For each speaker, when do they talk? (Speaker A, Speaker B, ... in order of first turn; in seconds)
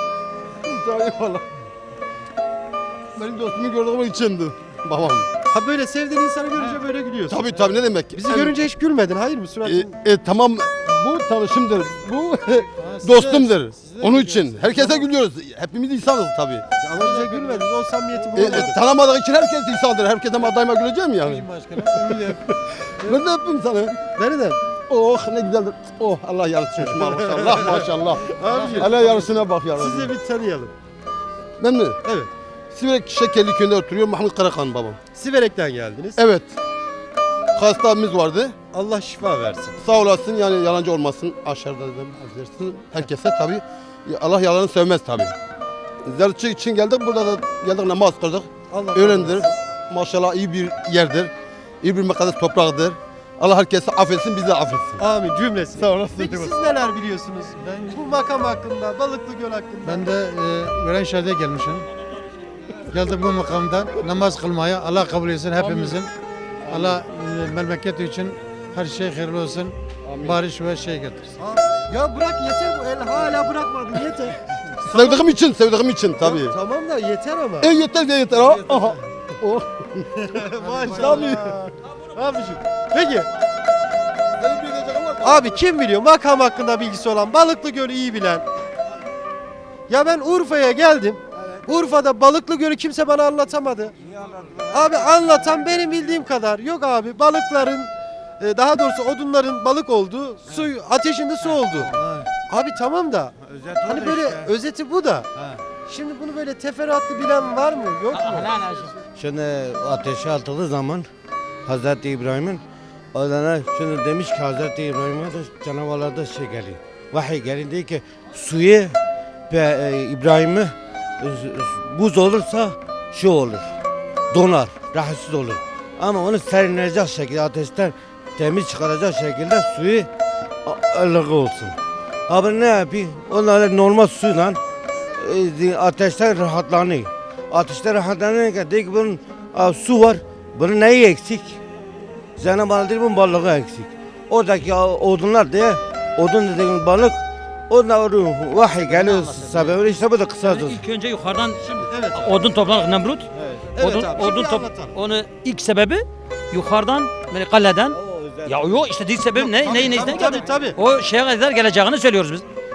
Speaker A: 0.6-1.4, 3.1-5.3, 7.3-8.6, 9.7-16.6, 18.3-24.0, 24.9-30.1, 31.6-32.0, 32.7-35.0, 36.2-36.5, 37.5-38.5, 39.8-45.4, 46.0-55.0, 55.8-56.6, 66.7-67.0, 70.0-70.4, 74.8-76.6, 77.6-80.1, 80.9-81.5, 84.4-85.6
Speaker B: 5.5-9.9, 13.2-13.4, 16.8-18.8, 24.2-24.6, 26.8-29.1, 29.7-30.7, 32.0-32.3, 35.1-36.2, 38.7-39.8, 48.7-49.5, 55.0-60.1, 71.4-75.2, 76.2-77.7, 80.2-83.3, 85.2-88.5, 89.9-94.0, 94.7-108.5, 151.7-152.5, 153.6-155.0, 159.3-160.8
Speaker C: 12.7-15.1, 16.9-18.5, 21.2-22.4, 28.4-29.3, 57.6-58.0, 59.8-61.9, 62.9-66.1, 66.7-71.3, 80.6-81.1, 101.9-102.2
Speaker D: 94.2-95.6, 103.4-104.5, 109.2-111.1, 111.7-112.6, 113.1-119.0, 119.5-123.7, 124.3-130.1, 130.7-131.8, 132.3-134.6, 135.2-141.6, 142.4-150.8, 157.9-158.9
Speaker E: 108.1-109.0, 148.8-149.8, 150.4-162.4